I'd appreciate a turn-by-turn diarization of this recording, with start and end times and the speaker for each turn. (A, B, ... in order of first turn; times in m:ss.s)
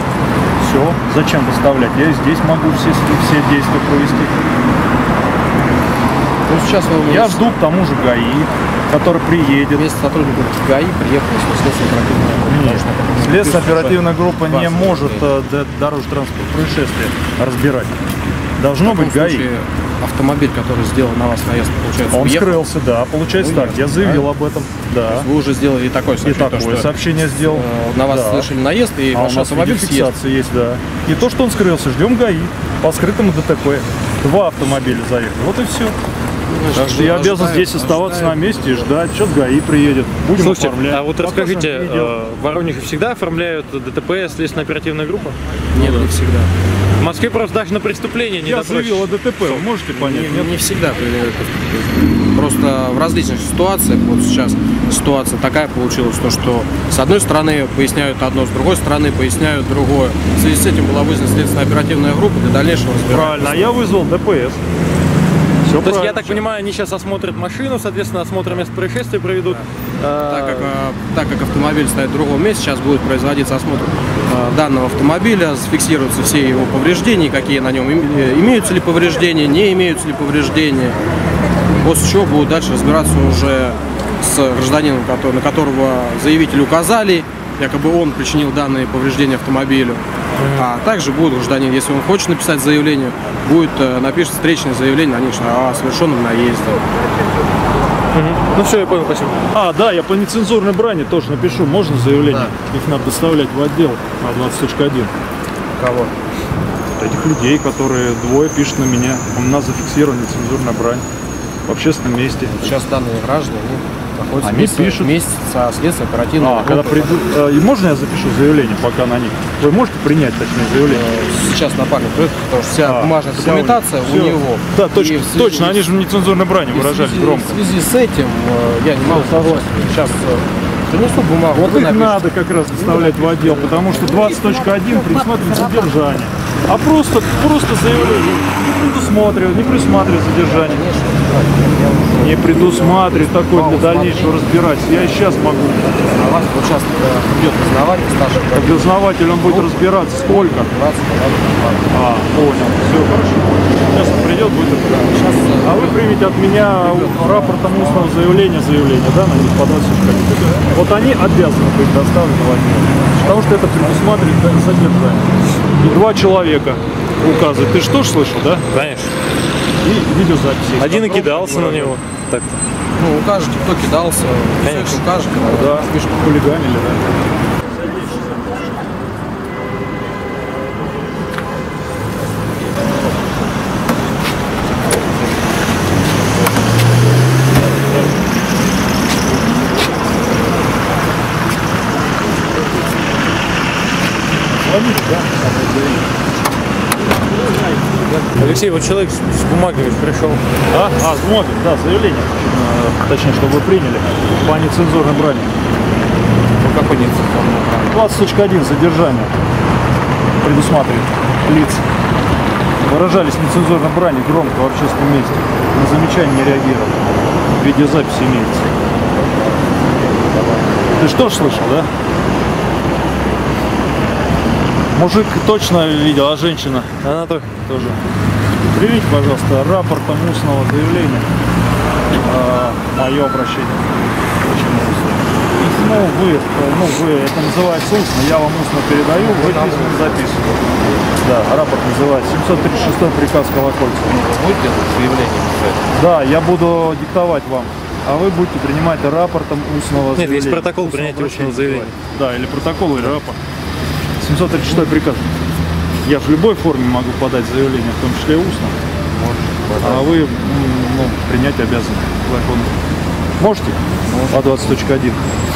0:00.6-0:04.4 A
0:06.5-0:07.4 B
0:07.0-0:09.8 A
0:09.7-0:15.3 B
0:12.4-0:17.9 A
0:18.6-0:19.5 A
0:18.8-0:22.7 B
0:22.1-0:25.3 A
0:23.3-0:24.3 B
0:25.1-0:30.1 B
0:26.2-0:28.5 A
0:29.1-0:36.0 A
0:36.5-0:39.0 B
0:36.7-0:42.2 A
0:40.4-0:45.4 C
0:45.7-0:46.5 B
0:47.0-0:49.6 C
0:48.4-0:50.8 A
0:49.9-1:03.8 B
1:03.1-1:04.6 A
1:05.6-1:06.4 A
1:05.8-1:10.7 C
1:10.2-1:21.0 B
1:21.8-1:30.0 B
1:30.4-1:30.7 C
1:30.5-1:36.8 B
1:38.1-1:39.5 C
1:39.5-1:45.1 A
1:42.2-1:42.5 B
1:45.8-1:46.1 B
1:47.0-1:51.0 A
1:51.7-1:52.8 A
1:52.4-1:57.5 B
1:54.4-1:55.1 A
1:56.4-2:01.1 A
2:00.8-2:06.0 B
2:02.8-2:07.6 A
2:06.7-2:14.9 B
2:09.0-2:09.7 A
2:11.5-2:20.8 A
2:17.3-2:18.5 B
2:20.3-2:24.5 B
2:22.2-2:26.2 A
2:26.1-2:31.9 B
2:28.5-2:30.7 A
2:31.9-2:33.3 A
2:33.0-2:33.4 B
2:33.9-2:35.1 A
2:34.6-2:38.2 B
2:35.6-2:45.3 A
2:43.1-2:43.4 B
2:45.8-2:48.6 A
2:48.7-2:49.1 C
2:49.8-2:52.0 A
2:50.8-2:52.5 C
2:53.0-2:56.4 B
2:54.6-2:55.3 C
2:55.5-2:57.2 A
2:57.7-2:58.3 A
3:14.6-3:16.0 A
3:18.4-3:20.4 C
3:20.7-3:25.5 A
3:26.6-3:28.0 D
3:27.9-3:29.3 A
3:30.4-3:31.8 A
3:32.8-3:38.6 A
3:41.0-3:41.9 A
3:44.9-3:46.9 A
3:47.0-3:47.6 C
3:47.7-3:48.0 A
3:48.7-3:51.2 A
3:52.2-4:00.5 A
3:59.2-4:00.9 D
4:01.2-4:04.2 A
4:04.0-4:05.8 D
4:06.0-4:13.4 A
4:10.2-4:11.9 C
4:14.2-4:15.2 A
4:16.0-4:18.8 A
4:19.1-4:20.1 D
4:19.8-4:22.7 A
4:23.4-4:23.8 A
4:24.1-4:24.8 D
4:24.3-4:25.2 A